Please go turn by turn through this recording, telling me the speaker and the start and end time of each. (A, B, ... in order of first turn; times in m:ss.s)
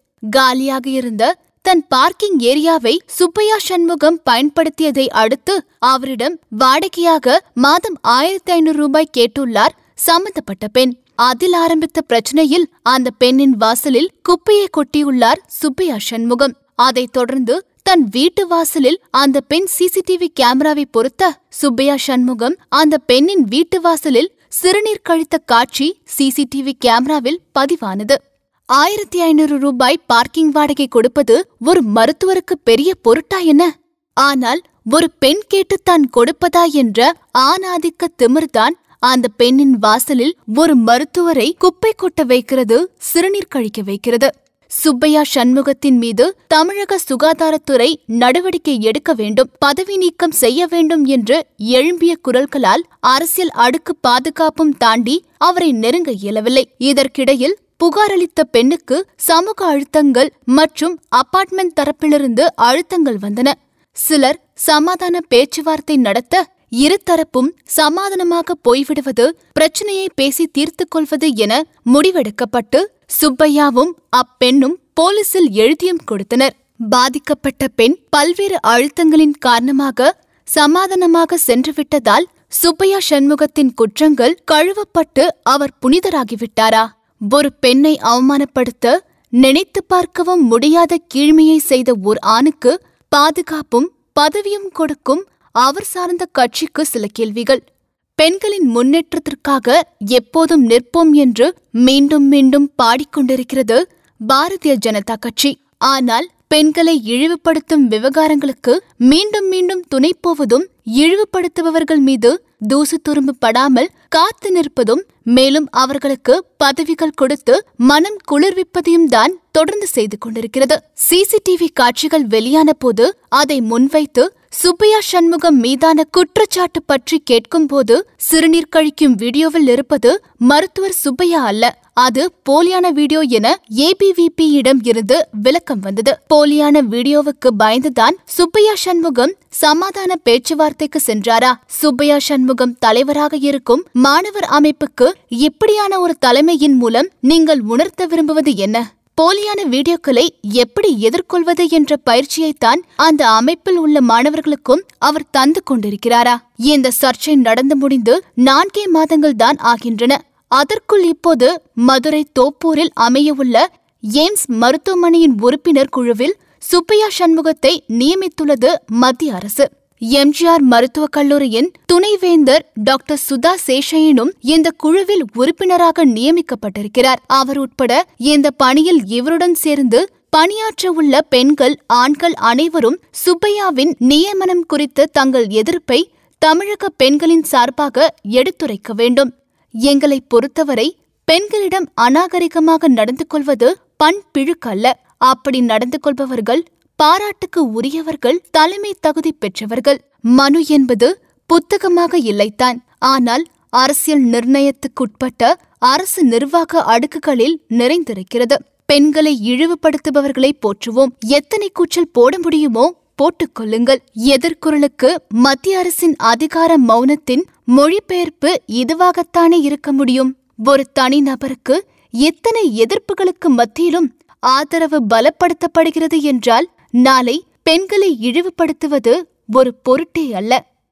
0:00.3-0:28.2 A
0:28.7-0:33.7 A
0:34.2-1:37.6 A
1:38.2-2:43.6 A
2:44.2-3:09.3 A
3:09.9-3:50.6 A